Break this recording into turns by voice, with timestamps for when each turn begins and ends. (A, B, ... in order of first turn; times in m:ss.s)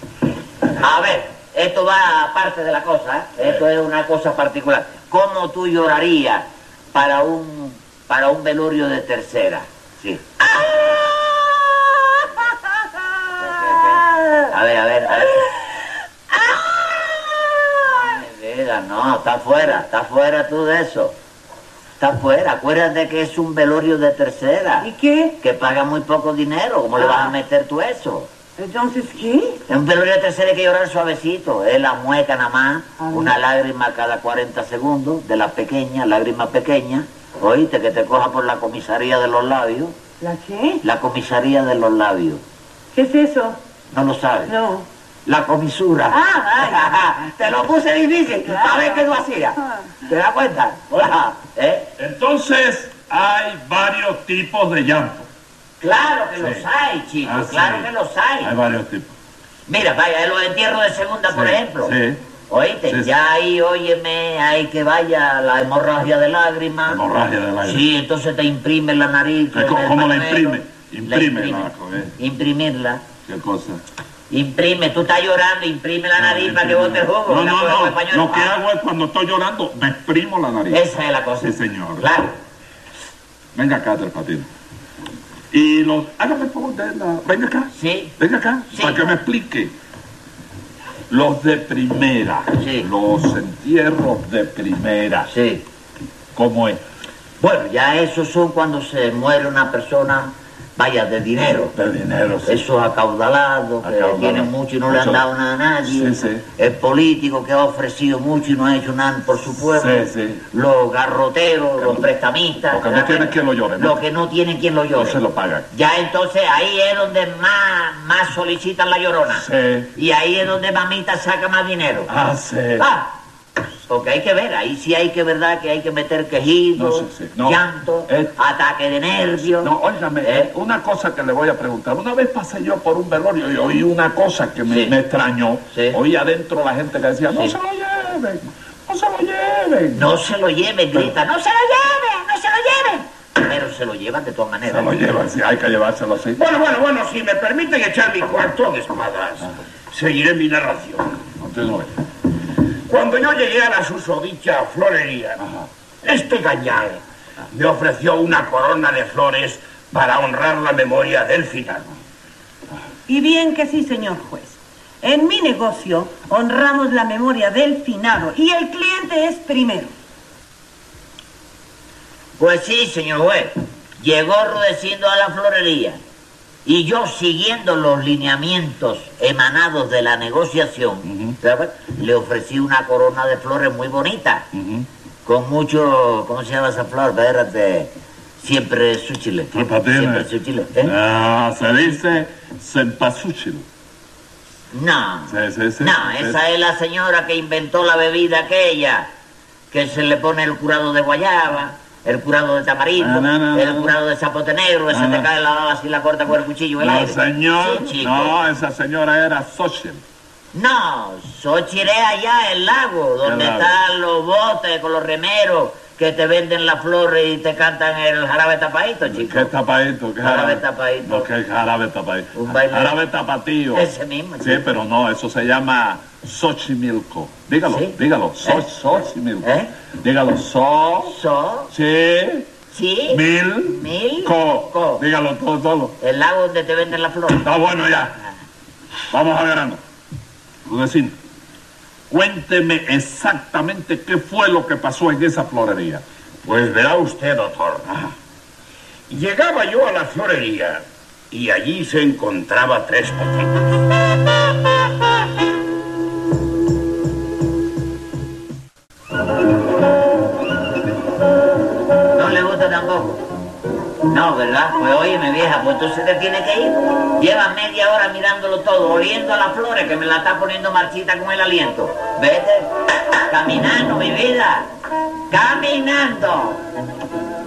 0:00.8-0:10.2 A
0:10.5-0:11.8 B
0:13.4-0:15.5 A
0:14.1-0:14.4 B
0:16.3-0:17.5 B
0:17.8-0:21.2 A
0:22.0-0:28.3 A
0:24.8-0:25.4 B
0:27.0-0:27.3 B
0:28.6-0:29.6 B
0:29.7-0:40.0 A
0:33.0-0:33.4 B
0:40.2-0:40.8 B
0:40.8-0:42.4 A
0:42.9-0:43.6 B
0:43.9-0:44.6 A
0:44.5-0:44.9 B
0:45.3-0:51.9 A
0:46.1-0:47.6 B
0:48.4-0:49.9 B
0:50.9-0:51.2 C
0:52.0-0:55.3 C
0:55.8-0:58.5 A
0:56.4-0:56.7 C
0:57.2-0:57.9 C
0:58.4-0:59.1 C
0:59.7-1:01.9 A
1:01.3-1:02.2 C
1:02.5-1:07.0 A
1:02.9-1:03.1 C
1:06.9-1:07.9 C
1:07.6-1:13.0 A
1:09.5-1:12.2 C
1:13.3-1:13.8 C
1:14.3-1:18.5 A
1:16.2-1:20.8 C
1:20.7-1:22.4 A
1:21.4-1:22.1 C
1:23.6-1:24.5 C
1:25.5-1:29.7 C
1:27.7-1:28.2 A
1:28.7-1:29.2 A
1:31.1-1:35.3 C
1:32.6-1:32.9 A
1:35.3-1:35.6 A
1:36.4-1:36.8 C
1:37.4-1:41.8 A
1:41.7-1:42.6 C
1:42.4-2:02.1 A
1:43.8-1:45.2 C
1:45.8-1:46.5 C
1:49.6-1:50.4 C
1:51.8-1:52.1 C
1:52.7-1:54.0 C
1:54.9-1:55.7 C
1:59.3-1:59.9 C
2:02.1-2:02.9 C
2:02.8-2:03.1 A
2:03.9-2:10.5 A
2:06.8-2:08.3 C
2:09.6-2:20.1 C
2:14.7-2:15.0 A
2:15.7-2:16.0 A
2:19.9-2:25.0 A
2:24.6-2:26.4 C
2:26.4-2:31.2 D
2:31.4-2:32.0 C
2:32.9-2:35.4 D
2:35.4-2:35.7 C
2:36.0-2:41.9 D
2:43.1-2:49.9 B
2:52.4-2:56.0 A
2:56.6-3:04.5 A
3:01.0-3:01.4 C
3:04.5-3:04.9 C
3:05.2-3:10.9 A
3:09.5-3:10.3 C
3:10.8-3:13.6 C
3:14.7-3:19.1 A
3:15.3-3:16.4 C
3:19.7-3:28.4 A
3:23.0-3:24.0 C
3:24.9-3:25.3 C
3:26.8-3:30.0 C
3:30.5-3:39.5 A
3:33.2-3:33.8 C
3:39.1-3:43.9 C
3:40.2-3:41.3 A
3:42.3-3:43.0 A
3:43.7-3:44.6 A
3:44.4-3:51.2 C
3:47.7-3:48.7 A
3:49.4-3:49.7 A
3:51.0-3:51.7 A
3:51.7-3:52.5 C
3:52.7-3:55.0 A
3:53.1-3:56.0 C
3:56.0-3:57.5 A
3:57.4-3:58.2 C
3:59.1-3:59.8 C
4:00.6-4:01.2 C
4:02.1-4:06.0 C
4:06.4-4:07.9 D
4:09.1-4:13.6 D
4:22.1-4:23.2 A
4:24.1-4:32.7 A
4:33.3-4:34.7 A
4:35.3-4:36.6 A